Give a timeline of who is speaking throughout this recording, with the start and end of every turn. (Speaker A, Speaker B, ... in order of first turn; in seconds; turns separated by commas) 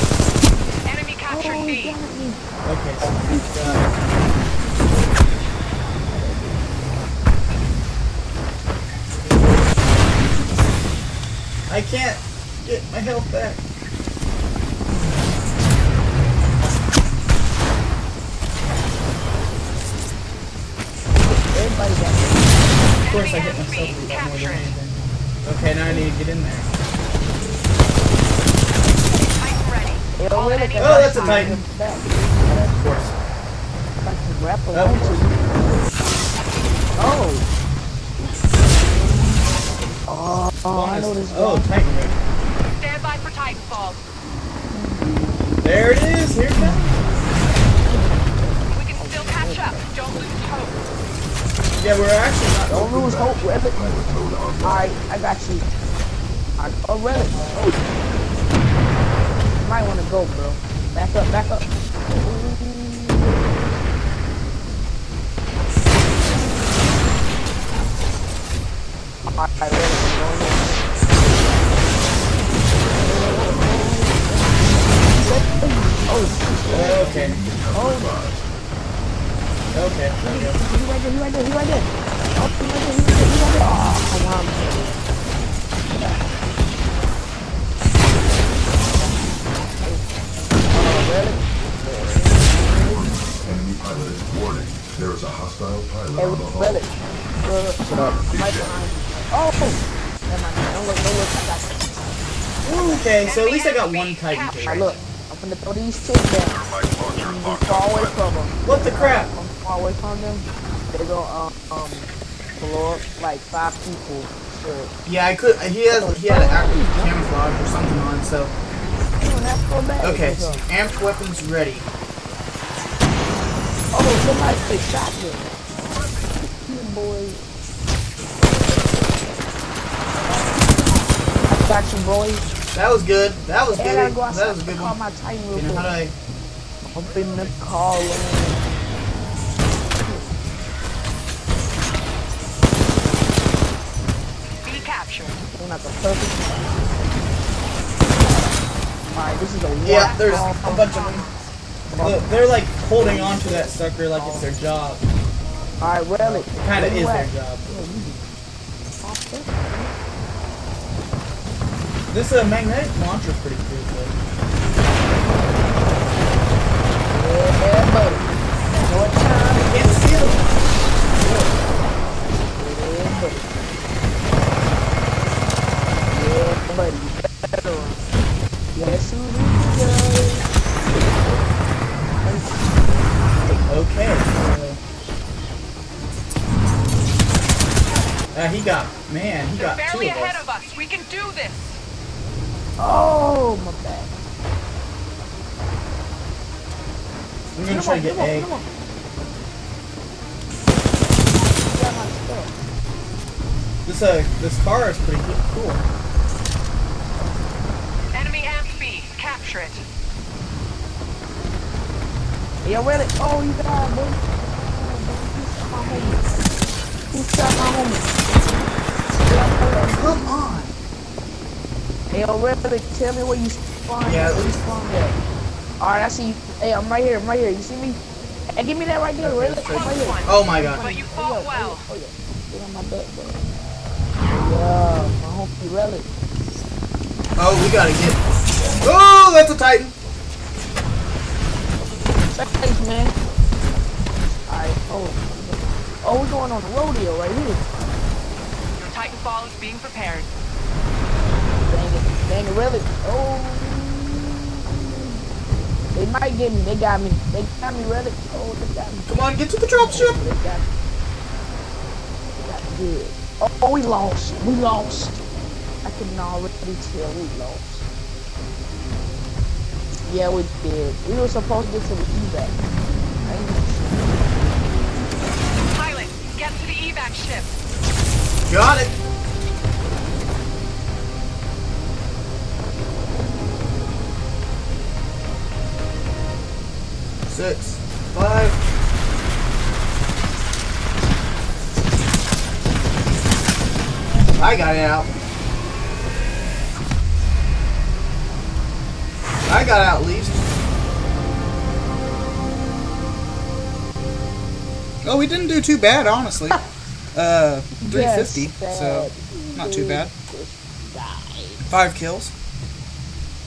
Speaker A: 0.8-2.0, Speaker B: 1.3-2.4, Speaker C: 2.6-4.1, Speaker B: 3.0-4.8, Speaker B: 6.0-6.8, Speaker C: 11.7-13.6, Speaker B: 21.2-22.8, Speaker A: 23.0-24.8, Speaker C: 23.1-26.7, Speaker B: 25.7-26.1, Speaker A: 29.3-31.4, Speaker B: 30.2-32.2, Speaker C: 30.8-31.6, Speaker C: 32.5-33.2, Speaker B: 34.0-35.4, Speaker C: 34.7-35.3, Speaker B: 37.0-37.5, Speaker B: 40.1-41.7, Speaker C: 40.7-42.2, Speaker A: 42.7-44.0, Speaker B: 44.7-45.4, Speaker C: 45.6-47.0, Speaker B: 46.5-49.9, Speaker A: 48.7-50.8, Speaker C: 51.8-52.8, Speaker D: 52.7-54.9, Speaker B: 52.7-53.8, Speaker B: 54.6-55.7, Speaker B: 56.6-57.8, Speaker B: 59.6-63.4, Speaker B: 69.3-71.6, Speaker B: 73.0-78.2, Speaker D: 76.5-78.5, Speaker C: 76.7-77.4, Speaker C: 79.7-80.6, Speaker B: 80.2-85.0, Speaker B: 85.9-86.3, Speaker B: 88.3-89.2, Speaker B: 89.8-90.1, Speaker B: 90.7-93.2, Speaker D: 92.8-96.8, Speaker B: 96.2-102.1, Speaker D: 97.8-98.7, Speaker C: 102.6-104.9, Speaker B: 102.7-103.0, Speaker A: 103.2-105.0, Speaker B: 104.6-114.9, Speaker D: 106.6-108.3, Speaker C: 108.6-109.3, Speaker C: 115.0-118.5, Speaker B: 115.9-117.5, Speaker B: 119.2-120.7, Speaker C: 120.0-121.9, Speaker B: 123.9-125.5, Speaker B: 126.5-127.4, Speaker B: 131.4-132.5, Speaker C: 132.7-135.0, Speaker B: 133.8-135.9, Speaker C: 135.5-136.2, Speaker B: 136.9-138.7, Speaker B: 140.0-140.4, Speaker A: 144.6-145.4, Speaker B: 145.6-146.9, Speaker B: 148.2-148.5, Speaker B: 149.1-150.9, Speaker C: 149.8-151.3, Speaker A: 149.9-151.3, Speaker B: 151.9-154.5, Speaker C: 152.0-155.0, Speaker B: 155.8-158.2, Speaker C: 156.2-157.7, Speaker B: 159.0-159.9, Speaker C: 162.1-164.2, Speaker B: 167.1-168.3, Speaker B: 168.8-170.5, Speaker C: 169.5-170.4, Speaker B: 171.2-173.5, Speaker B: 176.1-178.0, Speaker B: 178.7-181.5, Speaker B: 182.2-183.6, Speaker C: 183.7-184.8, Speaker C: 188.3-190.4, Speaker A: 189.5-191.8, Speaker B: 192.8-194.2, Speaker C: 197.6-198.5, Speaker B: 197.7-198.7, Speaker B: 201.6-202.5, Speaker C: 203.8-205.8, Speaker A: 208.1-209.8, Speaker B: 212.6-216.3, Speaker B: 217.1-218.1, Speaker B: 219.2-220.5, Speaker C: 219.8-220.8, Speaker B: 222.1-225.2, Speaker C: 224.0-224.6, Speaker B: 225.8-228.0, Speaker B: 228.6-233.5, Speaker C: 229.2-230.9, Speaker A: 229.7-231.8, Speaker B: 234.3-236.1, Speaker C: 237.4-238.2, Speaker C: 238.8-239.9, Speaker B: 242.3-243.2, Speaker B: 244.2-247.6, Speaker A: 248.8-250.3, Speaker B: 251.6-255.2, Speaker B: 255.9-259.1, Speaker C: 259.1-260.3, Speaker B: 259.7-260.7, Speaker B: 262.4-265.2, Speaker B: 265.8-267.9, Speaker B: 270.1-272.6, Speaker B: 273.2-274.3, Speaker A: 275.7-277.5, Speaker C: 278.5-278.9, Speaker C: 287.3-288.6, Speaker C: 294.4-295.1, Speaker C: 299.5-300.5, Speaker C: 305.0-306.6, Speaker C: 307.1-310.1, Speaker B: 307.8-311.7, Speaker C: 311.7-312.3